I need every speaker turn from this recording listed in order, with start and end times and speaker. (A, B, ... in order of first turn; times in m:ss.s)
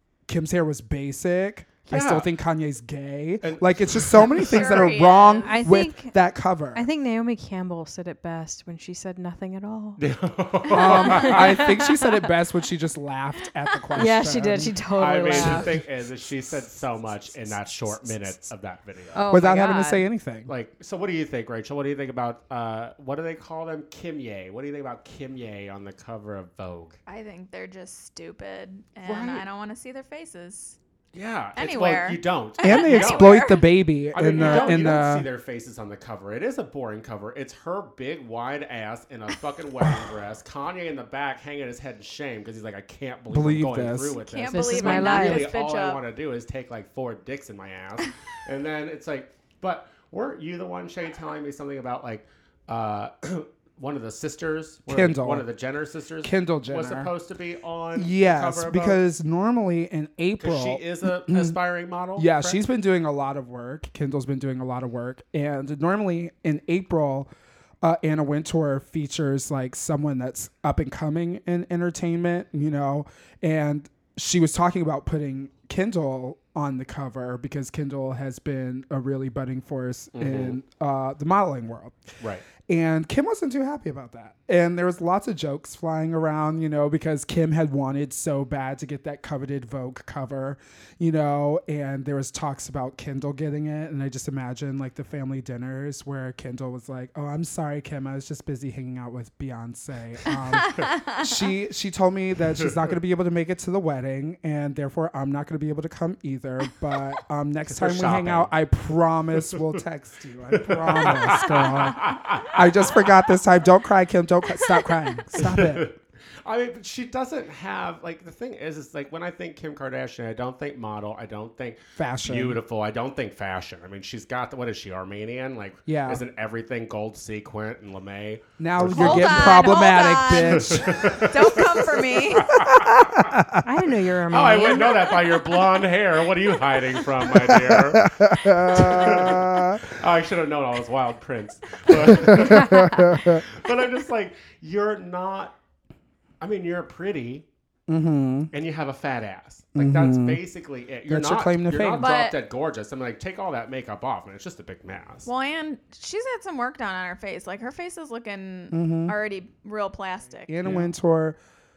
0:00.3-0:06.9 A
0:01.9-0:02.3 B
0:03.4-0:04.9 B
0:04.4-0:05.6 C
0:05.4-0:06.2 D
0:06.8-0:10.0 D
0:10.0-0:11.7 B
0:10.7-0:12.2 D
0:10.7-0:15.8 A
0:14.0-0:15.7 D
0:15.0-0:19.3 B
0:17.8-0:18.5 A
0:19.2-0:20.0 D
0:19.3-0:20.5 A
0:20.5-0:27.0 B
0:27.1-0:30.8 C
0:29.0-0:29.5 B
0:31.1-0:33.5 B
0:31.6-0:33.6 C
0:32.6-0:35.3 A
0:34.1-0:59.0 B
0:34.4-0:34.7 C
0:43.3-0:44.2 A
0:44.2-0:46.0 C
0:44.5-0:45.5 D
0:54.9-0:55.5 A
0:56.2-0:57.1 A
0:58.0-1:01.6 A
1:00.4-1:02.6 B
1:02.2-1:07.3 A
1:07.8-1:22.0 A
1:20.1-1:20.6 B
1:22.7-1:55.8 A
1:40.8-1:41.3 C
1:47.6-1:48.5 B
1:50.5-1:53.2 B
1:54.8-2:13.2 B
2:02.0-2:02.6 A
2:05.9-2:06.2 A
2:08.6-2:13.6 A
2:09.0-2:12.6 C
2:13.6-2:15.3 D
2:14.3-2:25.6 B
2:17.2-2:19.9 A
2:21.9-2:23.4 A
2:26.4-2:27.5 B
2:27.9-2:28.5 A
2:28.5-2:35.3 B
2:29.8-2:30.4 A
2:31.1-2:32.1 A
2:32.0-2:32.4 C
2:35.3-2:40.5 C
2:38.7-2:39.2 A
2:40.5-2:41.4 A
2:40.6-2:40.9 B